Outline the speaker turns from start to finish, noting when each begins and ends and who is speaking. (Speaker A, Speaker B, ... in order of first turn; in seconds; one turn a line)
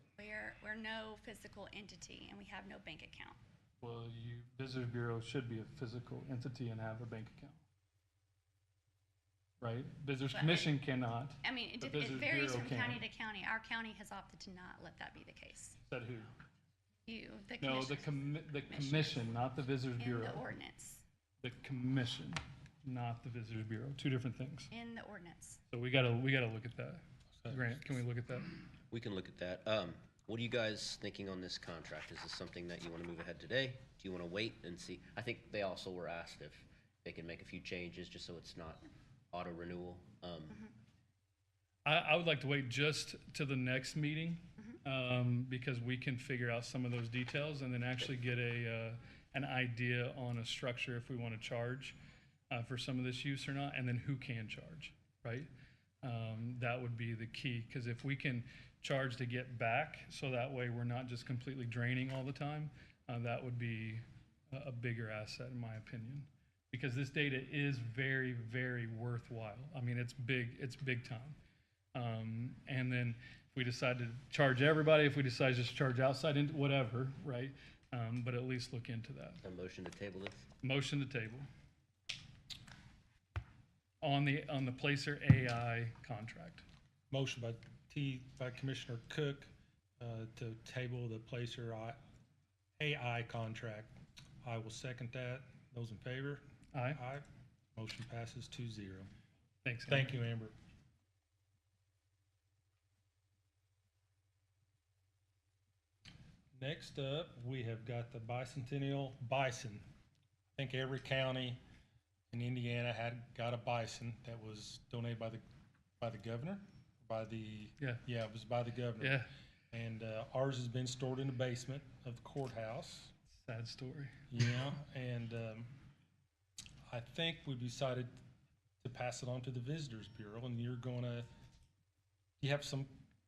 Speaker A: 0.2-3.4
Speaker B: 3.8-7.6
Speaker B: 9.6-13.0
Speaker A: 10.3-10.7
Speaker A: 11.4-15.8
Speaker B: 15.9-16.3
Speaker A: 17.1-19.5
Speaker B: 17.6-20.5
Speaker A: 20.0-21.0
Speaker B: 21.4-24.7
Speaker A: 24.7-25.6
Speaker B: 25.7-28.6
Speaker C: 27.4-27.8
Speaker D: 28.9-40.6
Speaker B: 41.8-52.0
Speaker B: 52.5-55.5
Speaker B: 56.0-71.4
Speaker B: 71.9-79.4
Speaker D: 79.4-80.5
Speaker B: 80.6-81.5
Speaker B: 84.0-86.6
Speaker C: 87.1-92.0
Speaker C: 92.8-97.2
Speaker B: 96.7-97.0
Speaker C: 97.8-99.1
Speaker B: 99.6-100.2
Speaker C: 99.9-100.5
Speaker C: 106.5-109.8
Speaker C: 110.5-111.6
Speaker C: 112.3-115.4
Speaker C: 116.0-123.1
Speaker B: 119.0-119.3
Speaker B: 123.3-124.2
Speaker C: 124.3-125.7
Speaker C: 126.9-128.1
Speaker C: 128.8-131.3
Speaker C: 132.4-132.9